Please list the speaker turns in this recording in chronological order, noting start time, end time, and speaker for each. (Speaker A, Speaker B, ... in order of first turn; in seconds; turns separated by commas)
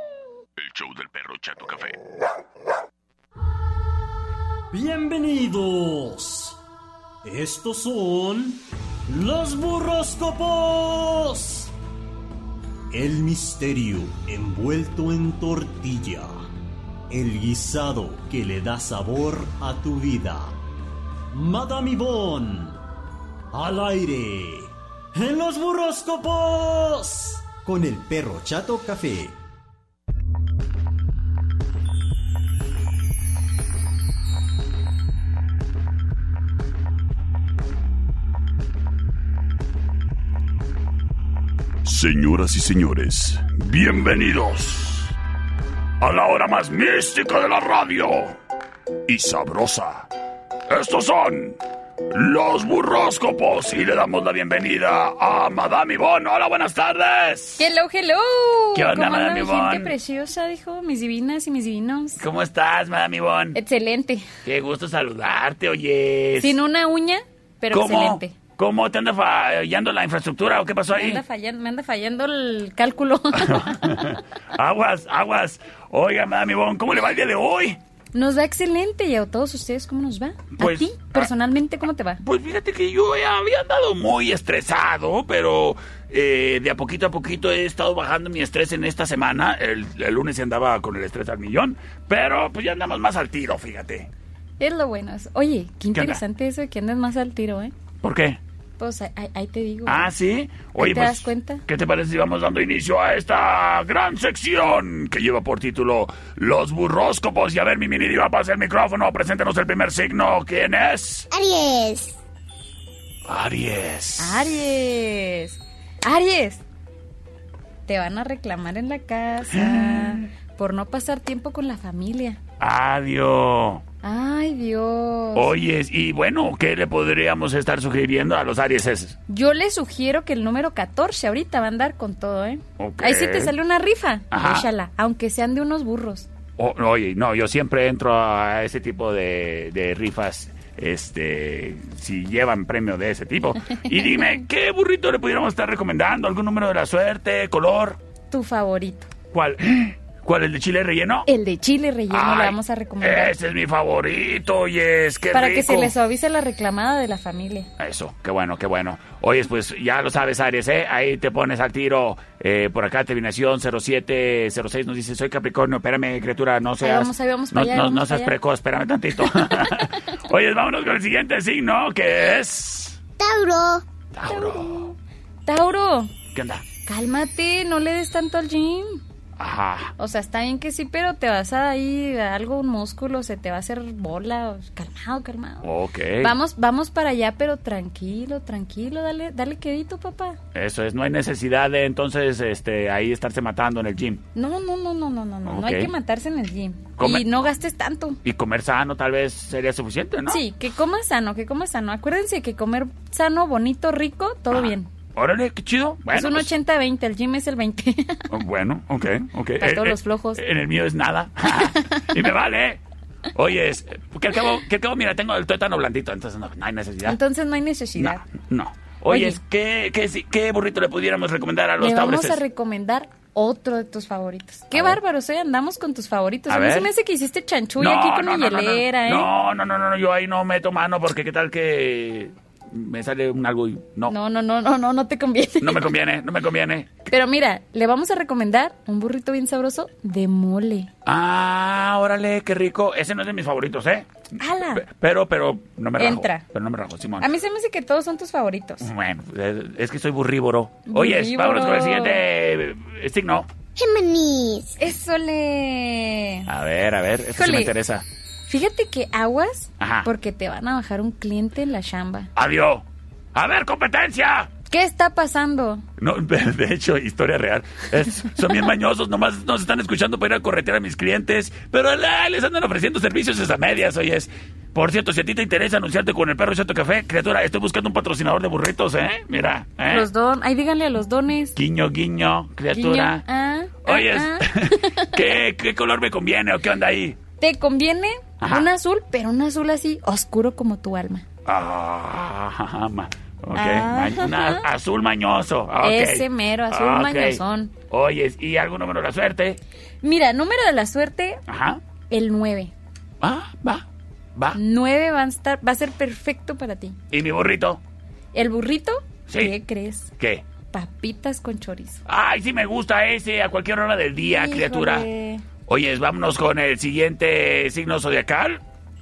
Speaker A: 0.6-2.0, Speaker B: 4.7-6.6, Speaker B: 7.2-11.7, Speaker B: 12.9-16.4, Speaker B: 17.1-20.6, Speaker B: 21.3-22.8, Speaker B: 23.5-29.4, Speaker A: 41.8-45.1, Speaker A: 46.0-48.4, Speaker A: 49.0-50.1, Speaker A: 50.7-57.7, Speaker C: 57.6-62.2, Speaker A: 58.7-59.9, Speaker A: 62.2-63.6, Speaker C: 63.5-64.2, Speaker A: 64.4-66.6, Speaker C: 66.4-68.3, Speaker A: 67.7-71.2, Speaker C: 70.9-73.8, Speaker A: 73.3-77.8, Speaker C: 78.1-82.2, Speaker A: 80.6-81.3, Speaker A: 82.2-94.1, Speaker C: 94.6-97.7, Speaker A: 95.9-96.2, Speaker A: 98.0-98.4, Speaker C: 98.8-100.1, Speaker A: 99.8-111.3, Speaker C: 100.7-101.6, Speaker D: 111.3-112.2, Speaker A: 113.2-114.6, Speaker C: 114.2-116.6, Speaker C: 117.8-122.4, Speaker A: 119.5-120.2, Speaker A: 122.6-123.8, Speaker C: 124.0-125.5, Speaker A: 125.3-129.2, Speaker C: 129.3-136.3, Speaker A: 132.8-133.5, Speaker A: 134.3-134.7, Speaker A: 136.6-148.0, Speaker C: 144.0-144.3, Speaker C: 148.3-149.1, Speaker A: 149.3-151.3, Speaker C: 151.2-153.3, Speaker A: 152.1-155.9, Speaker C: 155.3-157.7, Speaker A: 157.8-173.0, Speaker C: 166.8-168.3, Speaker D: 173.2-173.8, Speaker A: 174.1-174.9, Speaker C: 174.3-176.1, Speaker A: 176.3-176.6, Speaker C: 176.8-179.0, Speaker A: 179.4-179.9, Speaker C: 180.0-190.4, Speaker A: 185.6-186.3, Speaker A: 190.5-194.2, Speaker C: 194.3-198.2, Speaker A: 195.4-195.9, Speaker A: 197.0-197.4, Speaker A: 198.2-200.4, Speaker C: 200.3-204.9, Speaker A: 204.5-206.5, Speaker C: 206.1-208.2, Speaker A: 208.3-212.8, Speaker C: 209.6-210.4, Speaker C: 211.7-212.1, Speaker A: 213.3-217.2, Speaker C: 217.0-218.2, Speaker A: 218.0-222.4, Speaker C: 219.1-219.4, Speaker C: 221.8-229.3, Speaker A: 224.7-225.0, Speaker A: 226.5-226.9, Speaker A: 227.8-234.1, Speaker C: 234.1-235.9, Speaker A: 235.6-237.0, Speaker C: 237.1-240.9, Speaker A: 241.0-244.1, Speaker C: 244.4-244.8, Speaker A: 244.7-247.3, Speaker C: 246.0-246.5, Speaker C: 247.2-248.9, Speaker A: 248.8-253.5, Speaker C: 250.9-252.2, Speaker D: 253.8-254.8, Speaker C: 254.8-256.5, Speaker A: 256.5-258.0, Speaker C: 257.3-257.8, Speaker C: 258.5-262.3, Speaker A: 259.8-260.1, Speaker A: 262.3-264.5, Speaker C: 264.7-265.8, Speaker A: 266.0-280.1, Speaker C: 279.9-281.6, Speaker A: 281.5-283.2, Speaker C: 282.7-285.2, Speaker A: 283.8-287.2, Speaker C: 287.4-291.2, Speaker A: 288.4-288.7, Speaker A: 291.4-299.6, Speaker C: 293.5-294.7, Speaker C: 295.8-297.7, Speaker C: 300.0-301.4, Speaker A: 301.5-301.8, Speaker C: 302.1-302.7, Speaker A: 303.2-304.6, Speaker C: 304.5-307.0, Speaker A: 307.1-307.8, Speaker C: 308.3-310.1, Speaker A: 309.3-309.5, Speaker A: 310.2-310.4, Speaker C: 310.7-312.0, Speaker A: 312.1-315.1, Speaker C: 314.3-315.4, Speaker A: 315.7-318.6